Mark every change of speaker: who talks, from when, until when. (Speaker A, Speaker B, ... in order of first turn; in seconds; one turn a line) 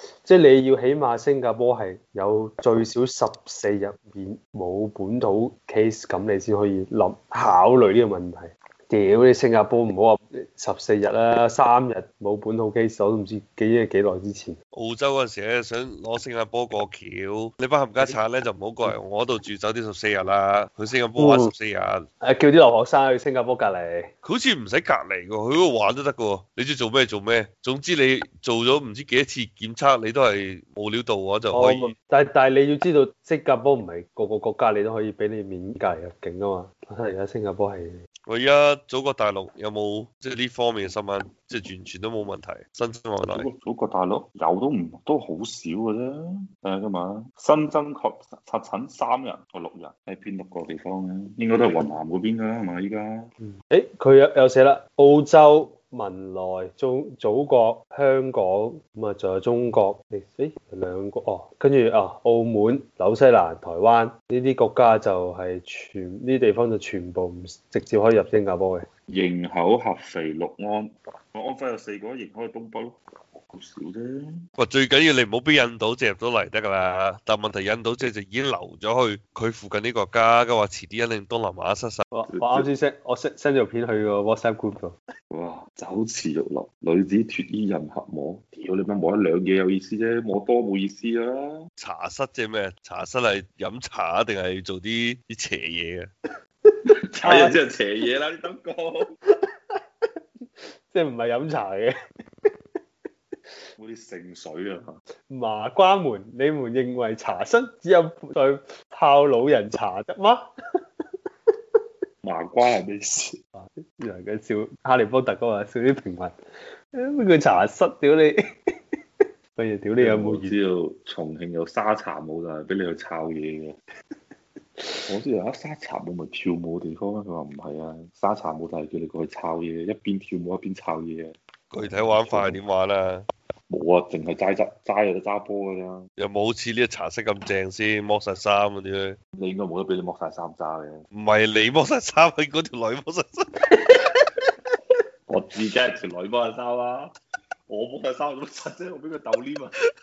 Speaker A: 0.2-14.6
Speaker B: 14.7-22.0
Speaker A: 21.1-21.5
Speaker A: 22.2-24.1
Speaker B: 24.2-31.9
Speaker A: 31.5-38.0
Speaker B: 38.3-43.5
Speaker C: 43.3-53.3
Speaker A: 53.5-68.9
Speaker C: 69.1-74.4
Speaker B: 74.6-82.1
Speaker A: 82.1-85.0
Speaker C: 82.3-82.7
Speaker C: 85.3-91.6
Speaker B: 91.8-96.1
Speaker C: 96.9-99.1
Speaker A: 97.2-97.5
Speaker A: 100.9-101.9
Speaker C: 103.8-104.9
Speaker A: 105.3-110.4
Speaker C: 112.2-113.4
Speaker A: 113.5-116.3
Speaker A: 116.9-118.3
Speaker A: 119.5-120.5
Speaker C: 120.0-123.7
Speaker C: 125.1-132.6
Speaker B: 131.7-133.2
Speaker C: 133.7-136.0
Speaker B: 136.2-139.2
Speaker C: 139.3-141.0
Speaker B: 141.1-143.5
Speaker C: 145.3-147.1
Speaker C: 147.7-149.8